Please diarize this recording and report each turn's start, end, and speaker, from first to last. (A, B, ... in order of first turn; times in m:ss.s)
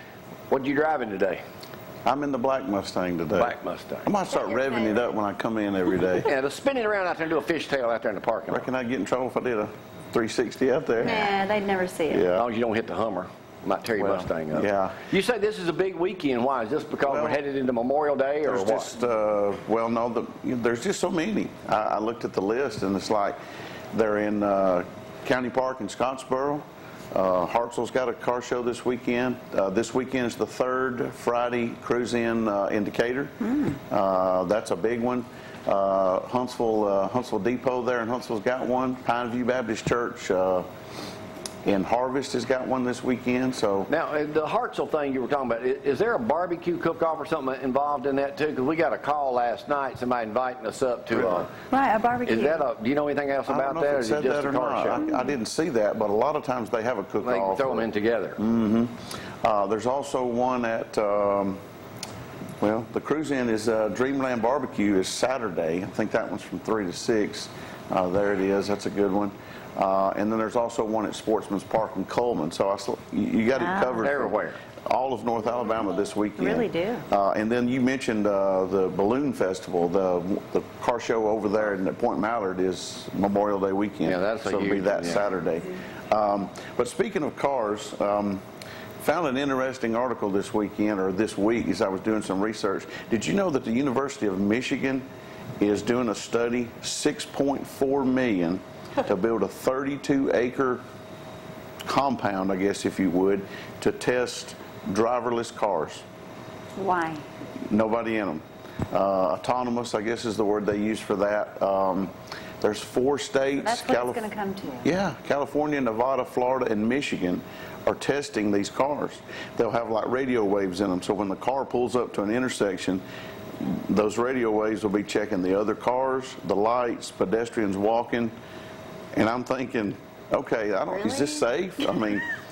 0:00.5-0:01.4 A
0:02.0-0:06.3 B
0:03.4-0:04.1 A
0:04.3-0:05.1 C
0:06.2-0:08.7 A
0:08.5-0:11.4 B
0:11.0-0:12.3 C
0:12.1-0:12.4 B
0:12.3-0:19.0 A
0:14.0-0:15.0 B
0:17.0-0:17.4 B
0:18.4-0:23.4 B
0:23.9-0:40.7 B
0:41.6-0:43.9 B
0:43.9-0:51.5 A
0:51.1-0:51.4 B
0:51.7-0:52.6 C
0:52.2-0:55.0 A
0:53.5-1:01.6 B
0:57.2-0:58.4 A
1:02.6-1:14.3 B
1:13.6-1:14.1 C
1:14.0-1:14.6 A
1:14.9-1:28.4 B
1:16.4-1:17.1 C
1:24.0-1:25.3 A
1:29.0-1:35.1 B
1:35.6-1:40.8 B
1:41.9-1:46.0 B
1:46.8-1:47.2 C
1:47.7-1:54.2 B
1:53.6-1:54.9 C
1:54.8-2:03.0 B
2:03.6-2:08.3 B
2:09.2-2:12.3 B
2:11.0-2:11.5 C